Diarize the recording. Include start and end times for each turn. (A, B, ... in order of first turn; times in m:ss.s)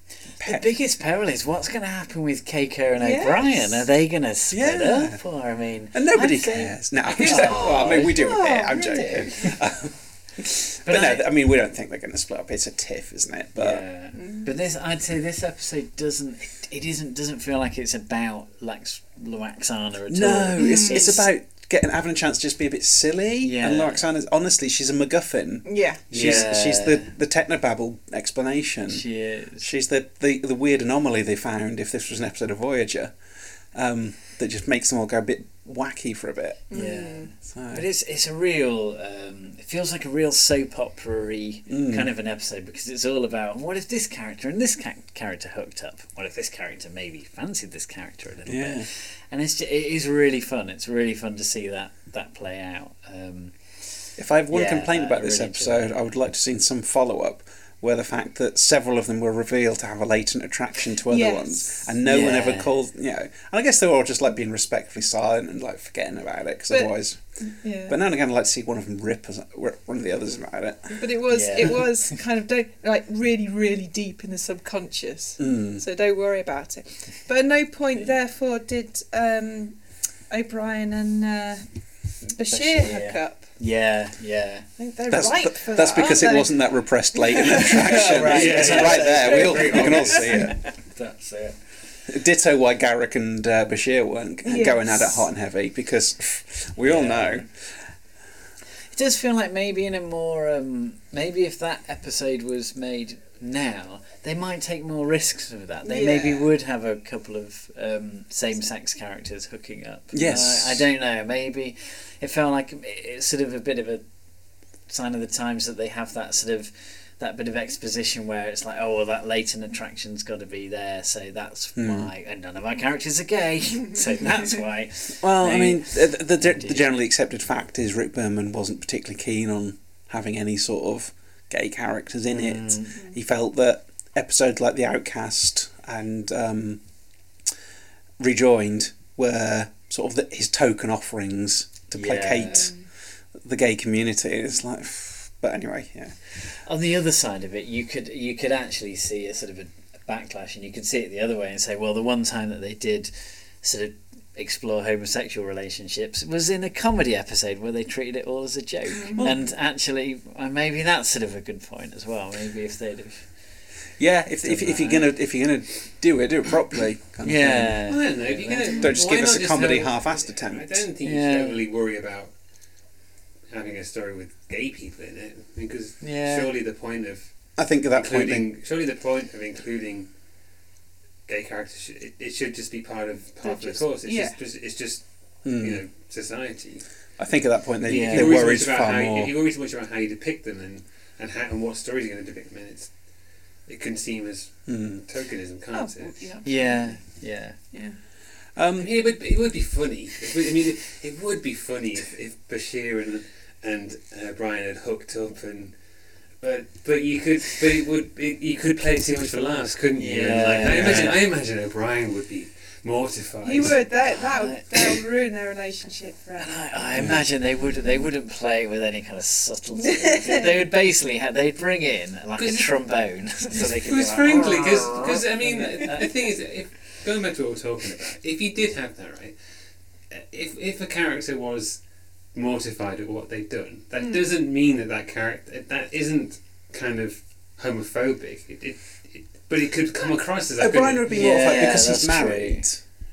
0:00.3-0:09.6 A
0:00.4-0:00.7 B
0:03.0-0:03.8 C
0:04.5-0:05.2 B
0:05.9-0:13.8 B
0:07.2-0:09.3 C
0:10.8-0:11.3 A
0:13.6-0:21.3 A
0:14.2-0:14.5 C
0:20.1-0:29.1 B
0:20.6-0:21.1 C
0:23.4-0:24.1 A
0:25.7-0:26.0 C
0:26.1-0:27.1 A
0:28.9-0:29.7 A
0:29.6-0:33.2 B
0:33.7-0:36.7 B
0:36.7-0:37.3 C
0:36.7-0:56.0 A
0:37.5-0:37.8 B
0:41.7-0:42.1 B
0:48.5-0:48.9 B
0:54.2-1:07.2 B
1:01.1-1:01.8 C
1:02.0-1:02.7 A
1:06.7-1:08.0 C
1:07.9-1:11.1 B
1:10.9-1:19.8 C
1:11.3-1:11.9 A
1:15.4-1:15.8 B
1:20.3-1:21.6 C
1:22.3-1:23.5 C
1:22.5-1:24.7 A
1:24.8-1:28.3 C
1:25.1-1:30.6 B
1:27.5-1:31.6 A
1:28.3-1:30.2 D
1:29.5-1:29.7 C
1:30.3-1:30.5 C
1:32.1-1:37.6 B
1:34.4-1:35.2 C
1:36.8-1:37.4 A
1:38.9-1:54.0 A
1:45.8-1:46.5 C
1:50.1-1:50.9 B
1:54.9-2:06.9 A
2:01.8-2:02.1 B
2:05.2-2:16.8 B
2:12.3-2:13.0 A
2:18.2-2:22.8 B
2:21.9-2:22.7 A
2:22.4-2:22.9 C
2:23.4-2:26.2 B
2:26.6-2:43.4 A
2:38.9-2:39.3 C
2:39.2-2:39.5 B
2:44.0-2:47.9 B
2:44.4-2:45.1 A
2:47.2-2:48.9 A
2:47.9-2:52.3 D
2:48.8-2:50.9 B
2:51.0-2:51.6 A
2:53.5-2:57.3 D
2:56.0-2:56.5 A
2:57.6-2:58.5 B
2:57.9-3:00.1 D
3:01.3-3:06.8 D
3:03.4-3:04.4 C
3:05.4-3:05.8 B
3:07.2-3:09.3 B
3:07.9-3:08.4 A
3:07.9-3:12.9 D
3:13.7-3:16.3 D
3:14.7-3:15.0 B
3:15.7-3:17.0 C
3:16.4-3:17.6 A
3:17.7-3:18.0 C
3:18.6-3:18.9 B
3:18.8-3:25.8 D
3:26.4-3:33.9 D
3:30.0-3:31.2 A
3:30.7-3:31.2 B
3:33.4-3:36.7 C
3:34.0-3:35.0 A
3:36.4-3:46.1 A
3:37.0-3:37.2 B
3:42.4-3:42.7 D
3:43.6-3:49.4 D
3:50.1-3:51.8 D
3:52.3-4:01.4 D
4:00.6-4:02.8 B
4:01.1-4:02.6 A